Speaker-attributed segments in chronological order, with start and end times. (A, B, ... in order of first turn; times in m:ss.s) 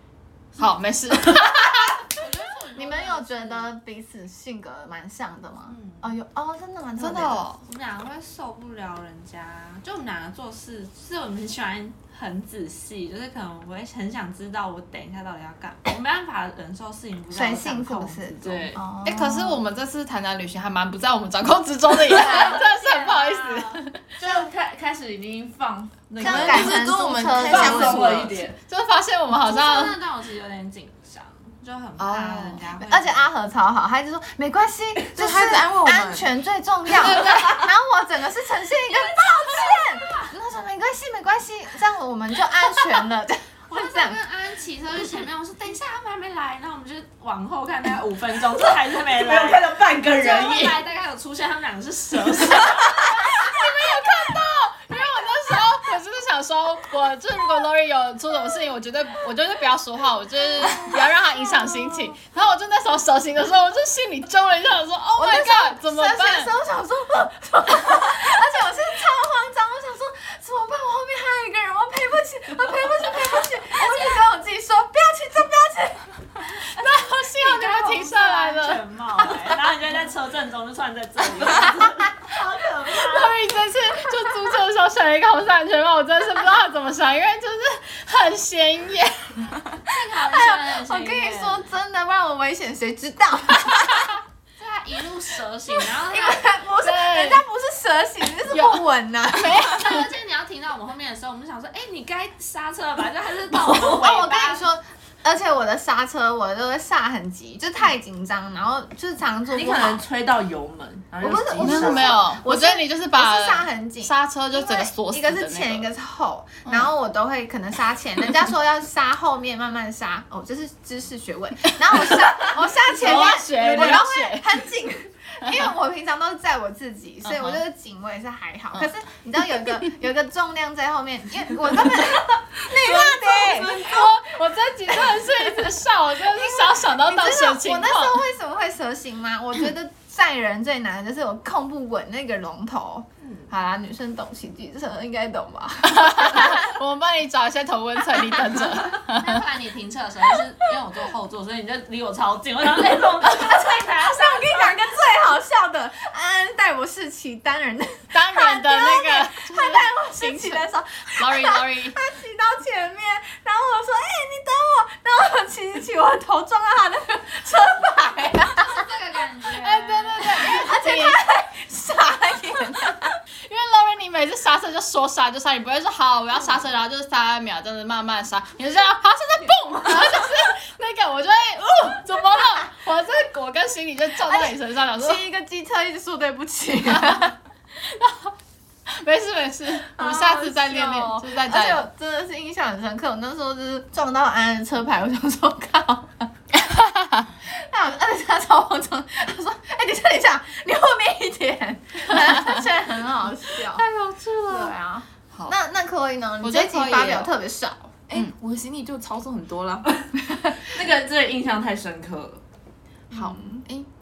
0:00.6-0:02.1 A
0:02.1-0:03.7 B
0:02.7-0:07.5 C
0:05.7-0:06.1 B
0:07.0-0:07.6 A
0:07.6-0:18.8 B
0:17.3-0:19.6 C
0:18.4-0:18.8 D
0:19.0-0:24.2 A
0:22.1-0:23.9 B
0:22.2-0:22.6 C
0:24.2-0:26.9 D
0:26.2-0:28.4 E
0:26.2-0:28.1 C
0:27.4-0:28.6 D
0:28.6-0:30.0 A
0:29.3-0:33.3 B
0:32.0-0:32.7 A
0:32.8-0:44.2 C
0:35.1-0:36.3 E
0:37.0-0:37.7 A
0:38.8-0:40.3 B
0:43.7-0:53.6 B
0:48.4-0:50.8 D
0:52.7-1:06.5 A
1:05.1-1:16.9 C
1:16.6-1:18.8 A
1:17.3-1:23.4 B
1:22.9-1:29.6 A
1:29.8-1:31.7 B
1:30.2-1:34.1 C
1:34.6-1:36.5 B
1:35.9-1:39.8 C
1:36.8-1:37.4 A
1:38.5-1:40.1 A
1:39.7-1:44.6 B
1:43.8-1:50.0 C
1:49.5-1:52.2 D
1:51.2-2:14.1 C
1:51.6-1:55.9 A
1:56.6-1:56.9 A
2:01.8-2:04.7 A
2:05.4-2:05.7 A
2:07.2-2:07.6 A
2:09.5-2:09.9 A
2:13.6-2:18.2 A
2:14.8-2:26.8 C
2:25.8-2:29.4 A
2:29.0-2:34.8 B
2:33.2-2:48.8 C
2:38.1-2:42.0 A
2:48.6-2:50.4 B
2:49.6-2:51.2 A
2:50.2-2:53.1 C
2:53.4-3:05.2 A
3:04.2-3:07.3 C
3:06.9-3:08.3 A
3:08.9-3:11.9 A
3:09.9-3:16.3 C
3:16.6-3:17.3 A
3:17.4-3:23.8 C
3:22.2-3:22.6 A
3:23.7-3:24.7 A
3:24.5-3:27.9 C
3:26.4-3:27.3 A
3:28.1-3:30.1 E
3:30.5-3:32.4 D
3:33.1-3:33.9 E
3:33.1-3:33.6 C